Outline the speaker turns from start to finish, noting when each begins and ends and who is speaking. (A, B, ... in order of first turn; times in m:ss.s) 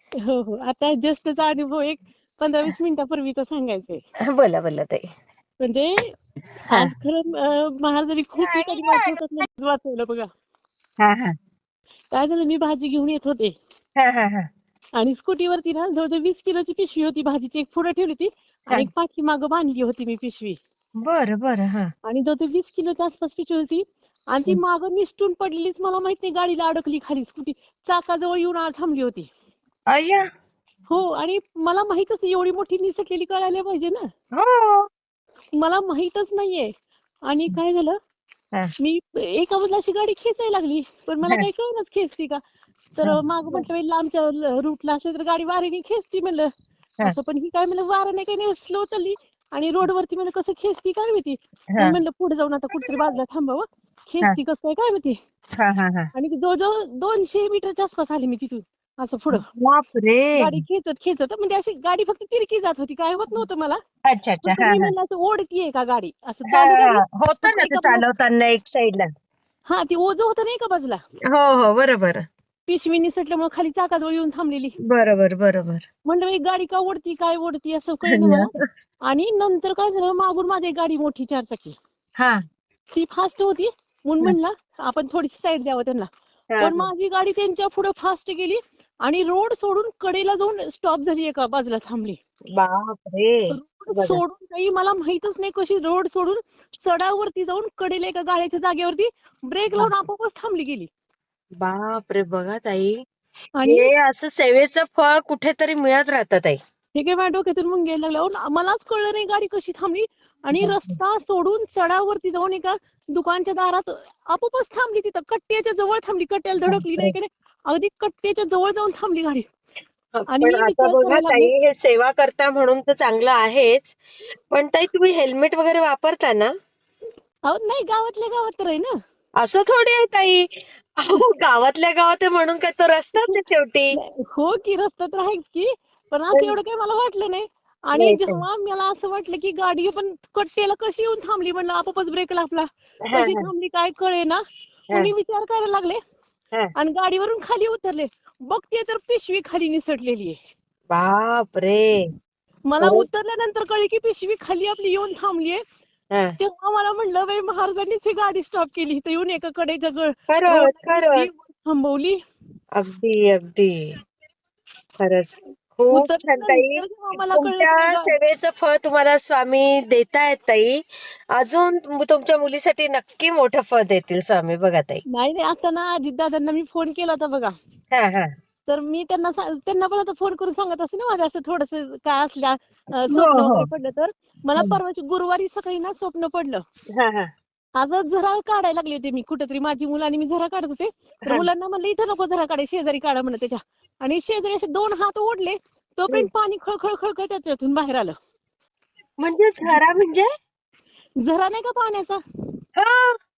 0:00.2-0:04.0 A
0:04.3-0:05.1 B
0:05.6-0:06.1 A
0:06.7-0:10.3 A
0:08.4-0:09.4 B
0:11.0-0:11.4 B
0:12.1-0:13.6 A
0:14.0-0:14.5 B
0:15.0-0:20.6 A
0:21.0-0:21.9 B
0:22.0-0:29.3 A
0:29.9-0:30.2 B
0:30.9-0:34.1 A
0:34.4-0:34.9 B
0:35.6-0:36.7 A
0:37.3-0:38.0 A
0:38.8-0:42.4 A
0:43.0-0:46.5 A
0:43.0-0:43.7 B
0:47.0-0:55.2 A
0:55.6-0:56.1 B
0:56.2-0:59.4 A
0:59.3-1:00.6 B
1:00.4-1:03.8 A
1:04.1-1:04.9 B
1:04.4-1:08.0 A
1:06.5-1:09.1 B
1:09.7-1:11.0 A
1:11.3-1:12.2 B
1:12.7-1:14.8 A
1:14.9-1:15.8 B
1:16.0-1:18.5 A
1:18.1-1:18.6 B
1:19.1-1:21.8 A
1:23.0-1:26.1 A
1:26.5-1:26.9 B
1:26.6-1:32.2 A
1:32.6-1:34.2 B
1:33.5-1:40.9 A
1:41.6-1:43.0 B
1:43.6-1:43.9 A
1:43.6-1:46.6 B
1:47.0-1:59.5 A
1:50.6-1:51.0 B
1:56.7-1:57.1 B
2:00.2-2:04.0 B
2:00.3-2:01.5 A
2:04.5-2:06.5 B
2:07.5-2:08.9 A
2:09.4-2:10.5 B
2:11.0-2:14.0 B
2:14.0-2:26.0 A
2:16.3-2:16.6 B
2:18.0-2:18.4 B
2:23.1-2:23.5 B
2:26.8-2:30.4 A
2:30.9-2:32.0 B
2:32.7-2:35.6 A
2:32.8-2:33.1 B
2:36.4-2:42.2 A
2:40.3-2:41.3 B
2:42.8-2:43.8 B
2:45.0-2:50.8 B
2:45.9-2:48.1 A
2:51.4-2:55.0 B
2:55.1-2:57.5 A
2:57.9-2:58.3 B
2:58.7-3:06.6 A
3:03.1-3:03.7 B
3:07.0-3:07.3 B
3:07.8-3:18.2 A
3:19.2-3:20.3 B
3:21.2-3:22.2 A
3:22.8-3:23.1 B